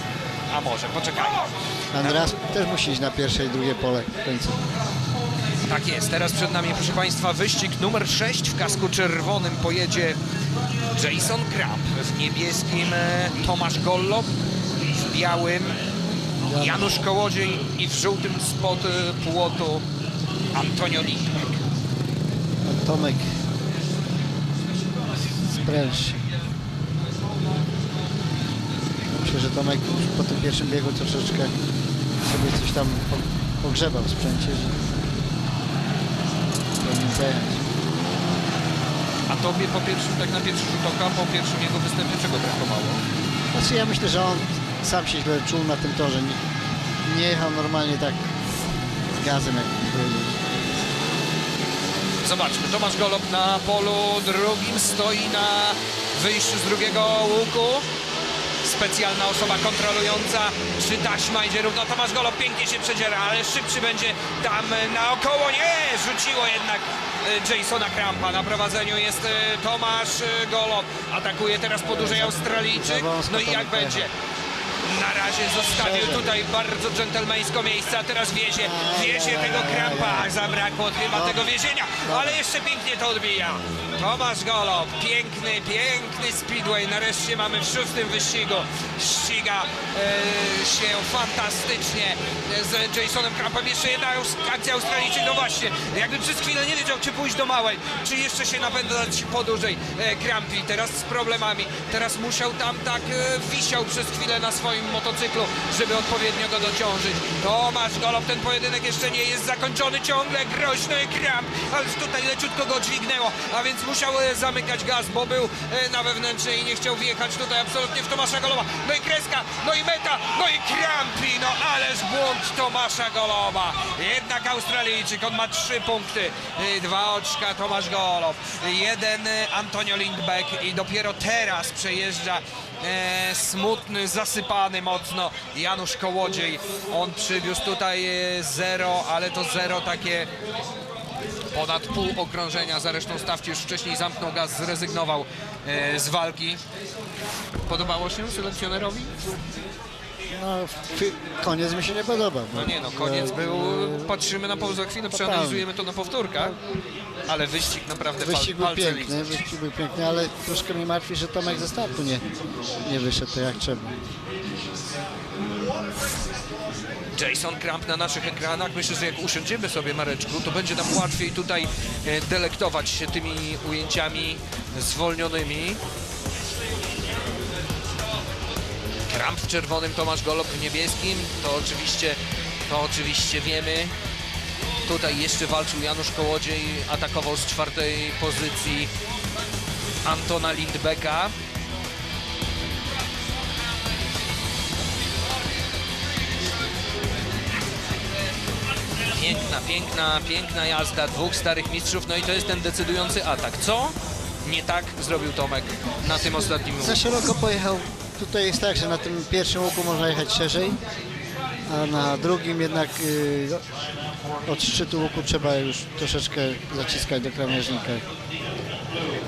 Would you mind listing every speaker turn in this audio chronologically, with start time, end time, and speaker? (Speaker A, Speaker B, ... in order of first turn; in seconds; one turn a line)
Speaker A: 0.5-1.5
Speaker B: 1.9-4.6
Speaker A: 2.0-2.3
Speaker A: 5.7-10.2
Speaker A: 10.9-14.3
Speaker A: 14.9-15.7
Speaker B: 16.4-17.0
Speaker A: 16.5-19.8
Speaker A: 20.5-21.6
Speaker B: 22.6-23.3
Speaker B: 25.5-26.2
Speaker B: 29.2-31.5
Speaker B: 32.2-34.8
Speaker B: 36.8-37.7
Speaker A: 39.3-43.0
Speaker B: 43.5-46.4
Speaker B: 47.0-48.3
Speaker B: 49.2-50.4
Speaker A: 52.2-57.9
Speaker A: 58.6-74.1
Speaker B: 71.8-74.1
Speaker A: 74.8-140.3
Speaker B: 75.7-76.3
Speaker B: 78.6-80.3
Speaker B: 81.1-82.4
Speaker A: 141.5-146.6
Speaker A: 147.7-149.2
Speaker B: 150.3-154.6
Speaker A: 152.5-156.6
Speaker B: 155.1-155.7
Speaker A: 157.3-159.4
Speaker B: 158.2-162.2
Speaker B: 162.8-163.9
Speaker A: 167.1-175.8
Speaker A: 179.1-183.9
Speaker A: 184.8-188.9
Speaker A: 190.0-191.3
Speaker A: 199.1-207.1
Speaker B: 206.8-210.8
Speaker B: 211.7-213.6
Speaker B: 214.4-218.0